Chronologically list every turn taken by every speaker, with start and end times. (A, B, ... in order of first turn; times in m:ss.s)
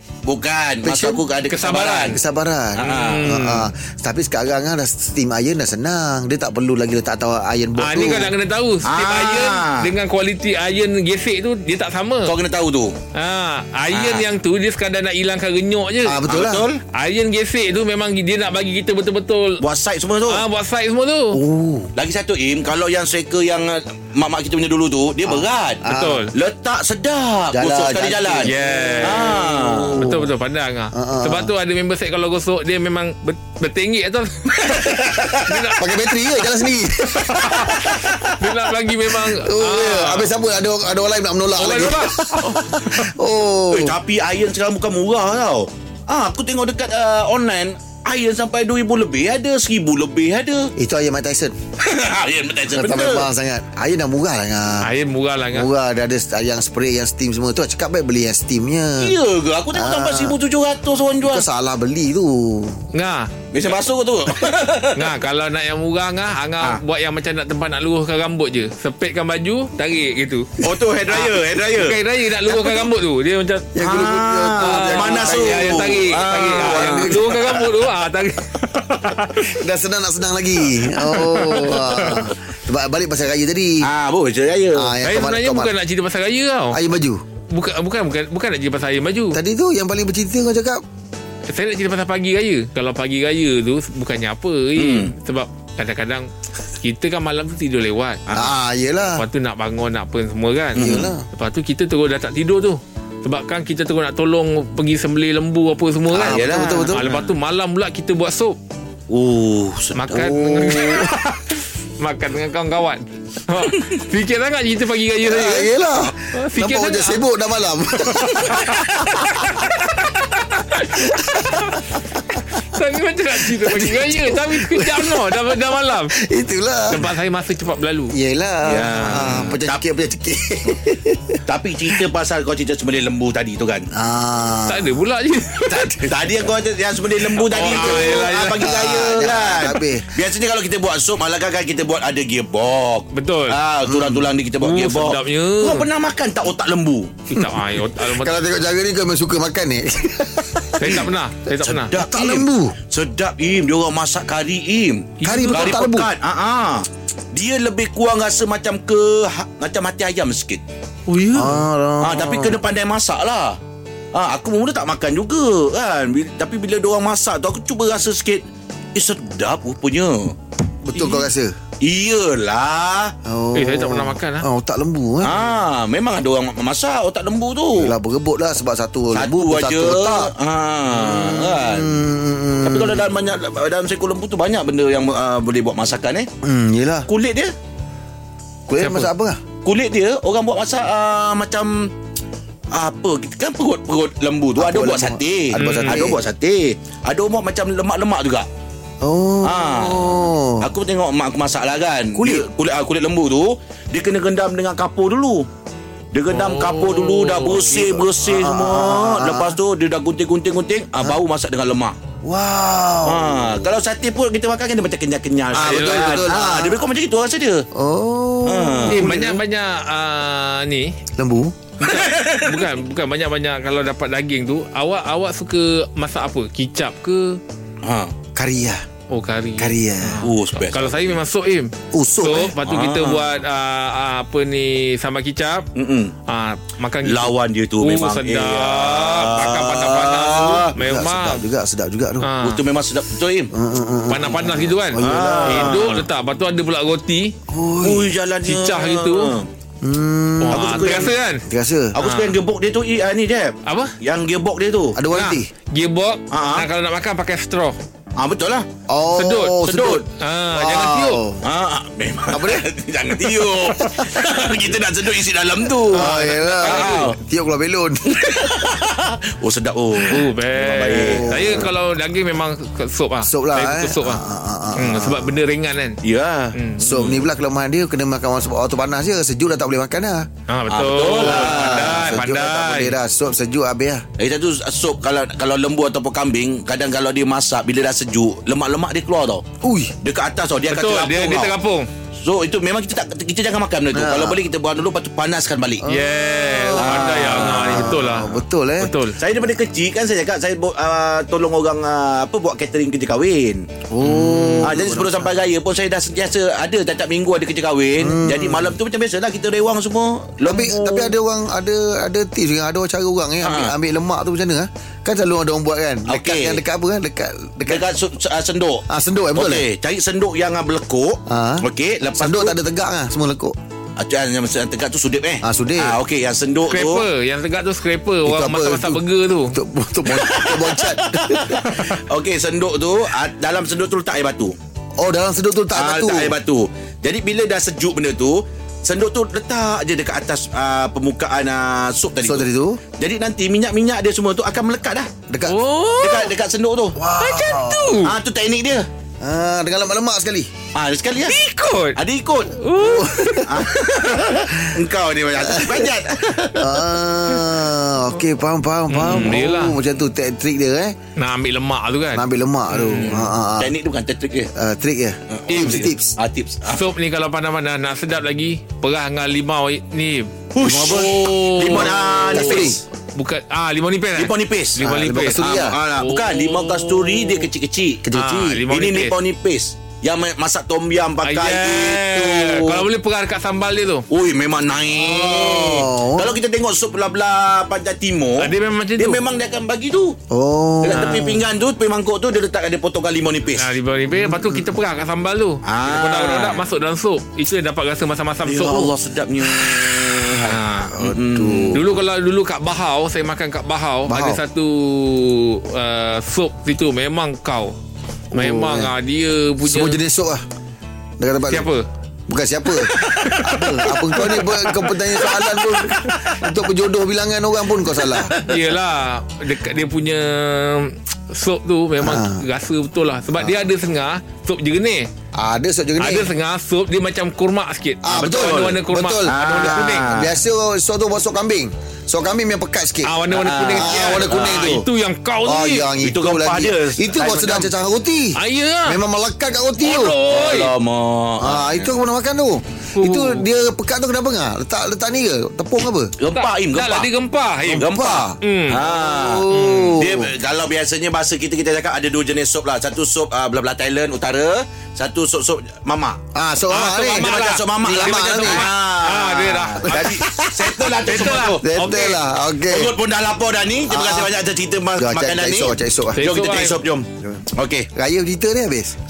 0:00.2-0:02.2 A
0:00.8-0:01.2 B
0:01.5-0:02.2 C
0:02.0-0:08.3 B
0:02.8-0:03.7 C
0:02.8-0:03.3 A
0:07.8-0:12.3 C
0:08.8-0:09.9 A
0:12.3-0:13.0 A
0:13.1-0:16.2 C
0:13.9-0:14.3 A
0:16.0-0:16.7 B
0:16.3-0:16.8 A
0:16.9-0:19.6 C
0:19.6-0:20.4 A
0:20.3-0:21.4 C
0:21.3-0:21.9 B
0:22.0-0:30.1 A
0:25.3-0:26.3 B
0:25.8-0:26.3 C
0:27.5-0:30.3 B
0:28.4-0:29.4 C
0:30.0-0:36.3 C
0:30.9-0:31.5 B
0:34.7-0:35.4 A
0:35.7-0:44.0 B
0:37.1-0:40.3 C
0:37.5-0:37.8 A
0:41.6-0:42.7 C
0:43.7-0:50.7 A
0:50.8-0:51.6 B
0:51.8-0:53.3 A
0:52.7-0:54.9 B
0:54.8-0:55.7 C
0:55.5-0:59.1 B
0:59.0-1:01.5 A
0:59.7-1:00.4 B
1:01.2-1:02.8 B
1:02.9-1:03.3 C
1:03.5-1:05.1 A
1:04.9-1:13.9 C
1:10.6-1:12.9 A
1:13.8-1:17.4 B
1:13.8-1:17.5 A
1:14.6-1:19.5 C
1:19.4-1:23.9 B
1:21.0-1:22.3 C
1:23.8-1:25.0 A
1:24.7-1:25.8 B
1:25.0-1:26.8 C
1:26.7-1:27.2 B
1:27.5-1:29.4 C
1:29.3-1:30.8 B
1:31.5-1:36.3 C
1:34.8-1:35.1 A
1:36.8-1:38.2 C
1:38.3-1:39.2 B
1:39.2-1:48.6 C
1:40.8-1:41.1 A
1:40.8-1:41.3 B
1:46.1-1:47.1 B
1:46.2-1:47.3 A
1:49.1-1:50.2 A
1:50.0-1:55.8 C
1:50.1-1:51.2 B
1:55.2-1:59.7 B
1:56.3-1:57.2 C
1:58.2-2:06.2 C
2:00.8-2:01.8 B
2:03.4-2:05.5 B
2:06.2-2:07.0 B
2:06.9-2:08.2 C
2:08.1-2:11.4 B
2:08.6-2:09.8 A
2:11.5-2:13.9 A
2:13.9-2:15.0 B
2:14.6-2:15.9 C
2:15.6-2:16.1 B
2:16.0-2:27.1 A
2:17.4-2:18.9 C
2:17.6-2:20.1 B
2:23.1-2:23.6 C
2:23.9-2:24.3 B
2:24.6-2:25.9 C
2:27.3-2:28.4 C
2:27.4-2:31.1 B
2:30.8-2:31.9 C
2:31.6-2:40.6 A
2:31.9-2:32.8 B
2:35.2-2:35.8 C
2:35.2-2:36.1 B
2:41.1-2:41.6 C
2:41.3-2:42.6 B
2:42.0-2:43.6 A
2:44.1-2:48.4 A
2:49.0-2:50.4 A
2:50.8-2:51.6 B
2:51.0-2:51.3 C
2:51.8-2:53.1 A
2:53.2-2:55.4 B
2:53.5-2:54.5 C
2:55.2-2:58.0 A
2:57.8-3:00.3 B
2:59.1-3:01.9 A
3:01.0-3:03.1 B
3:02.6-3:06.3 A
3:06.4-3:07.1 B
3:07.1-3:07.5 A
3:08.7-3:09.4 B
3:08.8-3:09.1 C
3:09.6-3:11.9 A
3:12.7-3:18.5 A
3:14.6-3:16.2 B
3:15.6-3:16.1 C
3:19.0-3:20.7 B
3:19.4-3:25.5 A
3:22.2-3:22.5 B
3:26.1-3:32.0 A
3:26.3-3:27.8 C
3:27.5-3:29.6 B
3:32.2-3:33.6 B
3:33.0-3:37.7 A
3:35.5-3:36.8 B
3:35.5-3:36.3 C
3:37.7-3:39.4 B
3:38.4-3:39.4 A
3:38.9-3:40.9 C
3:41.2-3:41.5 B
3:41.8-3:47.4 C
3:41.8-3:42.6 A
3:47.8-3:48.1 A
3:48.4-3:48.8 B
3:49.1-3:55.7 C
3:49.6-3:50.3 B
3:50.2-3:51.1 A
3:51.9-3:52.6 B
3:52.6-3:53.2 A
3:55.8-3:56.1 A
3:56.3-4:01.4 C
3:57.0-4:00.7 A
4:00.8-4:02.3 B
4:02.2-4:02.6 C
4:02.4-4:03.5 A
4:03.5-4:06.0 B
4:04.1-4:07.4 C
4:05.0-4:06.0 A
4:07.5-4:08.1 B
4:07.8-4:09.5 A
4:08.4-4:09.3 C
4:09.8-4:12.0 B
4:10.4-4:11.5 C
4:10.5-4:11.2 A
4:11.9-4:15.0 A
4:12.0-4:12.4 C
4:13.6-4:13.9 C
4:15.0-4:15.5 B
4:15.1-4:17.8 C
4:16.3-4:16.7 A
4:18.2-4:18.7 A
4:18.9-4:21.5 B
4:19.2-4:21.2 C
4:19.6-4:20.0 A
4:21.4-4:27.2 A
4:22.3-4:22.7 B
4:23.8-4:24.2 B
4:25.9-4:27.1 C
4:25.9-4:28.6 B
4:28.1-4:31.6 A
4:30.0-4:34.2 C
4:30.9-4:31.7 B
4:33.2-4:35.4 B
4:34.8-4:36.0 C
4:36.0-4:37.2 A
4:36.5-4:36.8 C
4:36.8-4:40.3 B
4:40.5-4:43.0 C
4:40.7-4:42.2 A
4:41.1-4:44.0 B
4:44.2-4:49.4 A
4:49.6-4:50.0 B
4:50.0-4:51.6 A
4:50.6-4:51.9 C
4:52.2-4:55.8 A
4:53.9-4:54.4 B
4:55.8-4:59.0 B
4:55.8-4:59.2 C
4:56.8-4:58.0 A
4:59.2-5:03.7 A
5:03.9-5:05.3 B
5:04.0-5:04.7 C
5:04.6-5:11.1 A
5:08.0-5:08.8 B
5:10.4-5:17.9 B
5:13.4-5:13.7 A
5:16.1-5:16.6 A
5:17.7-5:18.8 A
5:18.9-5:19.6 B
5:19.4-5:22.6 A
5:21.3-5:23.6 B
5:24.0-5:27.1 A
5:25.4-5:26.0 B
5:26.7-5:29.6 C
5:28.2-5:32.0 B
5:30.1-5:34.6 A
5:35.0-5:36.4 B
5:35.7-5:45.1 A
5:42.2-5:42.8 B
5:45.3-5:45.6 B
5:45.4-5:46.3 C
5:46.0-5:47.0 A
5:47.0-5:48.0 B
5:47.2-5:48.2 C
5:48.0-5:48.9 A
5:49.2-5:50.5 B
5:50.8-5:51.4 A
5:51.2-5:52.0 C
5:52.0-5:52.5 A
5:52.5-5:53.5 C
5:52.7-5:54.7 B
5:53.5-5:57.4 A
5:55.4-5:55.9 B
5:56.5-6:01.0 B
5:58.9-5:59.8 C
5:59.0-5:59.4 A
6:01.2-6:03.3 C
6:02.1-6:03.7 B
6:02.9-6:04.5 A
6:04.6-6:06.2 B
6:05.3-6:06.9 A
6:05.5-6:05.9 C
6:06.7-6:15.4 C
6:10.5-6:12.8 A
6:10.6-6:12.8 B
6:14.2-6:14.8 A
6:14.8-6:15.8 B
6:15.4-6:18.1 A
6:16.0-6:17.5 C
6:18.0-6:18.6 B
6:18.1-6:19.2 C
6:18.7-6:22.9 A
6:21.2-6:24.1 C
6:24.1-6:30.2 A
6:24.9-6:26.4 B
6:28.4-6:29.2 C
6:30.3-6:31.3 B
6:30.8-6:33.8 A
6:33.6-6:38.9 C
6:34.1-6:34.7 B
6:35.6-6:36.6 A
6:38.4-6:41.8 A
6:39.4-6:42.0 B
6:41.7-6:47.8 C
6:44.1-6:44.4 B
6:48.3-6:48.9 B
6:48.3-6:50.0 C
6:49.6-6:50.4 B
6:51.2-6:51.7 B
6:51.5-6:51.8 C
6:52.3-6:58.3 B
6:52.8-6:56.3 C
6:58.1-6:58.6 A
6:58.4-7:05.1 C
7:02.0-7:02.4 B
7:03.4-7:03.6 B
7:05.4-7:06.3 B
7:06.0-7:10.1 C
7:08.0-7:14.9 B
7:08.2-7:10.4 A
7:13.0-7:15.9 C
7:13.3-7:14.7 A
7:15.4-7:20.2 B
7:16.0-7:17.7 A
7:18.4-7:19.0 C
7:19.8-7:20.7 C
7:20.3-7:21.8 A
7:21.4-7:26.1 B
7:23.0-7:23.5 C
7:26.2-7:27.1 A
7:26.4-7:28.8 C
7:27.7-7:30.3 B
7:27.7-7:36.2 A
7:29.5-7:30.0 C
7:36.3-7:38.8 B
7:36.7-7:40.2 C
7:37.0-7:41.7 A
7:39.8-7:43.0 B
7:41.0-7:42.2 C
7:42.7-7:47.9 A
7:43.9-7:44.3 B
7:45.0-7:46.4 B
7:46.1-7:46.8 C
7:47.2-7:49.0 B